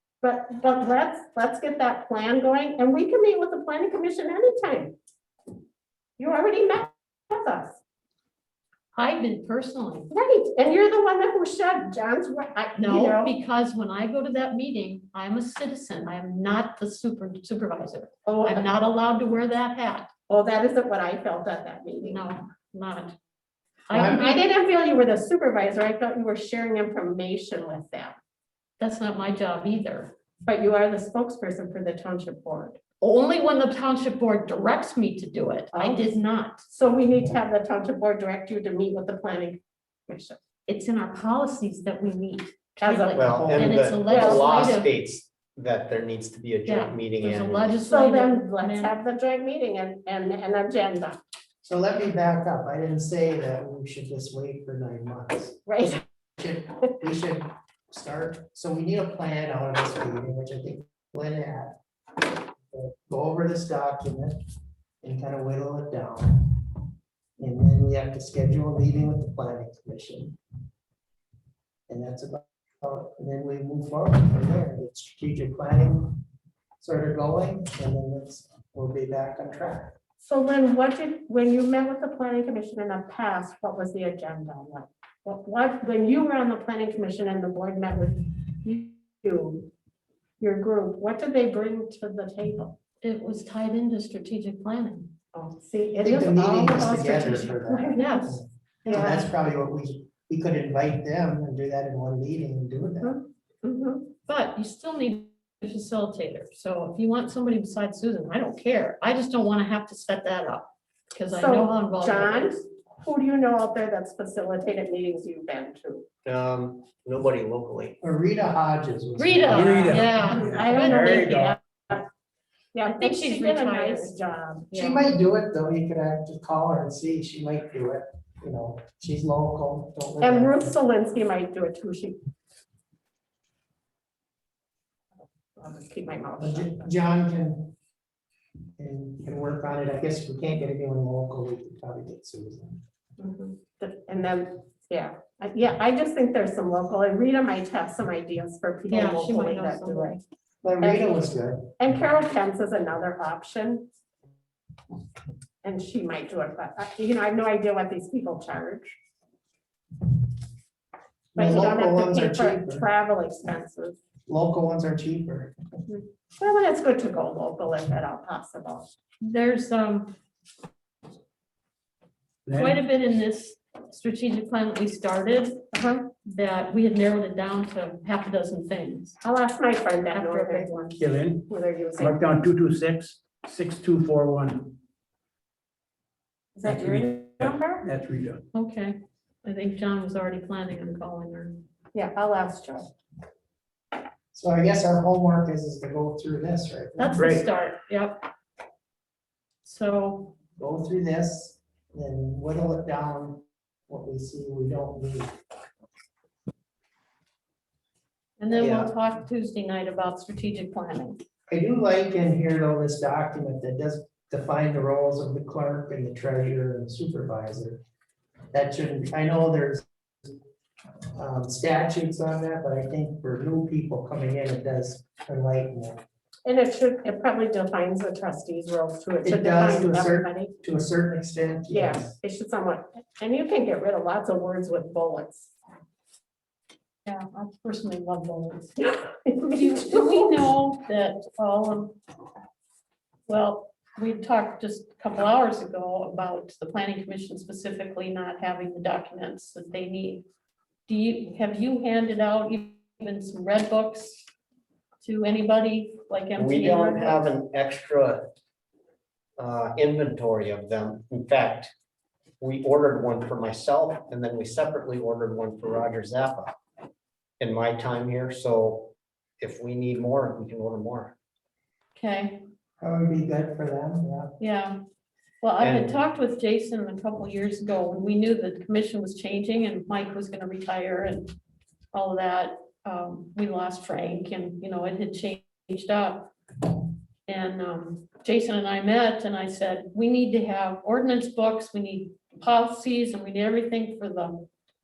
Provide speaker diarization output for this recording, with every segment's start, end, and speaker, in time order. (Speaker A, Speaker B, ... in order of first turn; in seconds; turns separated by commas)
Speaker A: 0.2-5.0, Speaker A: 6.2-7.8, Speaker B: 8.9-10.1, Speaker A: 10.1-13.3, Speaker B: 12.8-20.1, Speaker A: 18.3-18.7, Speaker A: 20.3-22.2, Speaker B: 22.0-23.2, Speaker B: 23.9-24.4, Speaker C: 23.9-24.2, Speaker A: 24.0-28.2, Speaker B: 28.8-30.1, Speaker A: 30.4-32.8, Speaker B: 33.0-36.6, Speaker A: 35.7-36.1, Speaker A: 36.7-40.4, Speaker B: 40.7-44.9, Speaker A: 42.8-44.6, Speaker D: 43.1-47.8, Speaker C: 43.5-43.7, Speaker B: 46.6-48.9, Speaker A: 47.9-51.2, Speaker C: 51.6-61.8, Speaker A: 55.7-56.0, Speaker C: 62.7-64.4, Speaker C: 65.0-66.8, Speaker C: 67.4-70.4, Speaker C: 71.9-76.2, Speaker C: 76.8-80.0, Speaker A: 80.2-89.7, Speaker A: 90.4-92.8, Speaker B: 93.0-95.1, Speaker A: 95.3-98.3, Speaker C: 96.0-103.2, Speaker B: 97.9-99.2, Speaker A: 98.9-99.2, Speaker A: 103.0-104.1, Speaker B: 104.3-112.6, Speaker A: 111.3-116.0, Speaker D: 116.2-118.0, Speaker C: 118.0-120.1, Speaker B: 119.2-121.4, Speaker E: 119.5-121.6, Speaker A: 120.0-122.1, Speaker A: 122.7-124.7, Speaker B: 122.9-124.2, Speaker B: 124.7-125.0, Speaker C: 124.7-130.8, Speaker A: 130.2-132.2, Speaker A: 135.6-136.9, Speaker C: 136.4-137.7, Speaker C: 138.8-142.8, Speaker A: 143.2-150.2, Speaker B: 148.9-150.2, Speaker C: 150.6-151.7, Speaker A: 150.8-151.2, Speaker A: 151.8-153.9, Speaker A: 155.6-159.0, Speaker C: 161.3-162.9, Speaker A: 161.3-164.0, Speaker C: 164.3-165.6, Speaker A: 165.9-168.9, Speaker B: 169.2-170.2, Speaker E: 172.5-172.8, Speaker B: 172.5-175.6, Speaker A: 175.7-176.1, Speaker B: 176.2-179.2, Speaker A: 179.2-180.9, Speaker B: 180.1-181.0, Speaker E: 180.9-184.8, Speaker A: 181.5-182.2, Speaker A: 186.6-187.9, Speaker E: 186.6-188.4, Speaker B: 188.5-191.6, Speaker A: 191.9-192.9, Speaker C: 194.3-197.4, Speaker B: 197.0-198.3, Speaker E: 197.2-197.4, Speaker B: 199.6-200.3, Speaker C: 200.6-205.3, Speaker B: 208.4-211.2, Speaker D: 208.6-208.9, Speaker C: 211.5-217.8, Speaker C: 218.5-220.3, Speaker C: 221.1-226.0, Speaker A: 226.5-230.5, Speaker C: 229.2-232.1, Speaker A: 231.7-235.5, Speaker B: 237.1-238.8, Speaker A: 239.0-240.3, Speaker B: 239.5-242.0, Speaker B: 243.3-250.2, Speaker B: 250.9-254.3, Speaker B: 255.0-257.3, Speaker D: 256.4-258.3, Speaker D: 259.4-261.7, Speaker D: 262.4-266.6, Speaker D: 267.4-271.1, Speaker B: 271.9-272.4, Speaker C: 272.8-274.4, Speaker B: 274.4-274.8, Speaker B: 275.4-281.3, Speaker D: 275.6-275.9, Speaker B: 281.9-286.3, Speaker B: 287.3-294.5